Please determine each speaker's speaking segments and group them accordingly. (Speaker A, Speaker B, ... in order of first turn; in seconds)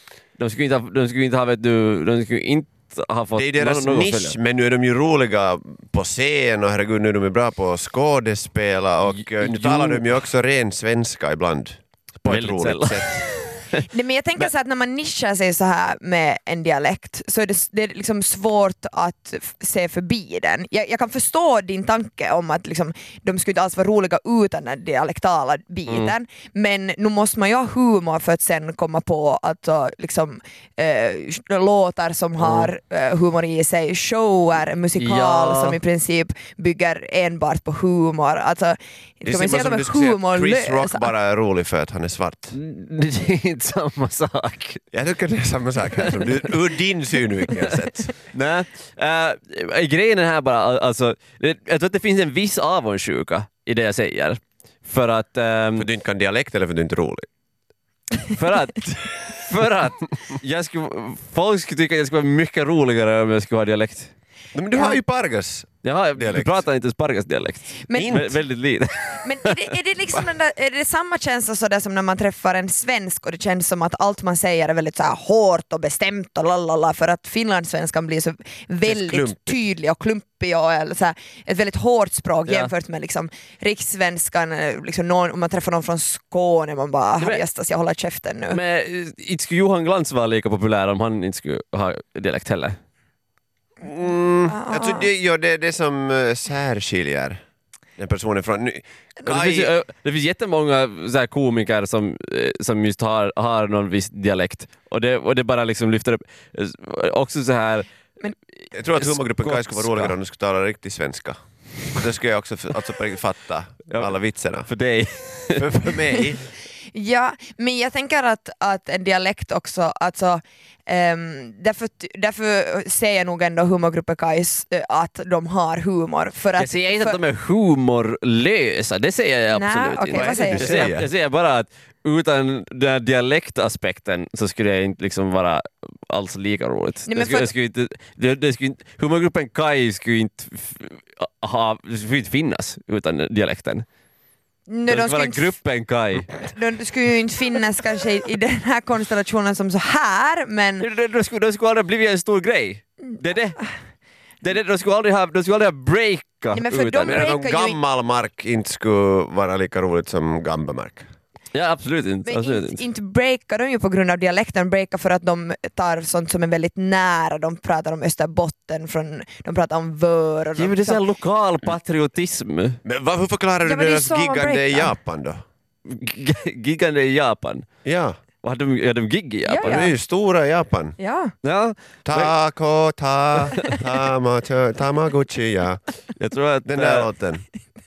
Speaker A: 0.4-4.4, 9.3-10.0, 12.3-13.9, 25.9-26.1, 32.4-32.7, 35.0-35.8, 42.5-44.8, 48.3-55.9, 58.4-64.1, 65.8-69.7, 82.5-82.7, 88.5-92.8, 99.2-107.9, 109.0-110.2, 114.7-116.0, 126.6-143.8, 144.9-146.3, 150.8-153.7, 154.4-157.3, 161.5-162.8, 170.6-172.8, 175.9-177.7, 178.4-179.9, 181.4-182.3, 186.2-187.1
Speaker B: 3.4-13.3, 39.2-42.5, 44.9-48.1, 55.8-57.3, 64.5-66.6, 67.9-68.4, 78.8-79.6, 93.8-97.4, 98.0-99.7, 108.7-111.4, 111.9-114.7, 115.6-116.4, 130.1-131.1, 157.0-161.1, 172.8-175.4, 177.8-178.2, 179.6-181.0, 182.1-185.8, 186.7-187.4
Speaker C: 13.9-41.1, 67.9-68.2, 69.2-88.6, 94.5-95.1, 116.9-127.2, 129.5-130.9, 137.1-137.5, 144.7-145.6, 146.4-150.9, 156.5-157.8, 162.2-171.0, 173.6-174.9, 179.5-179.9, 181.0-181.3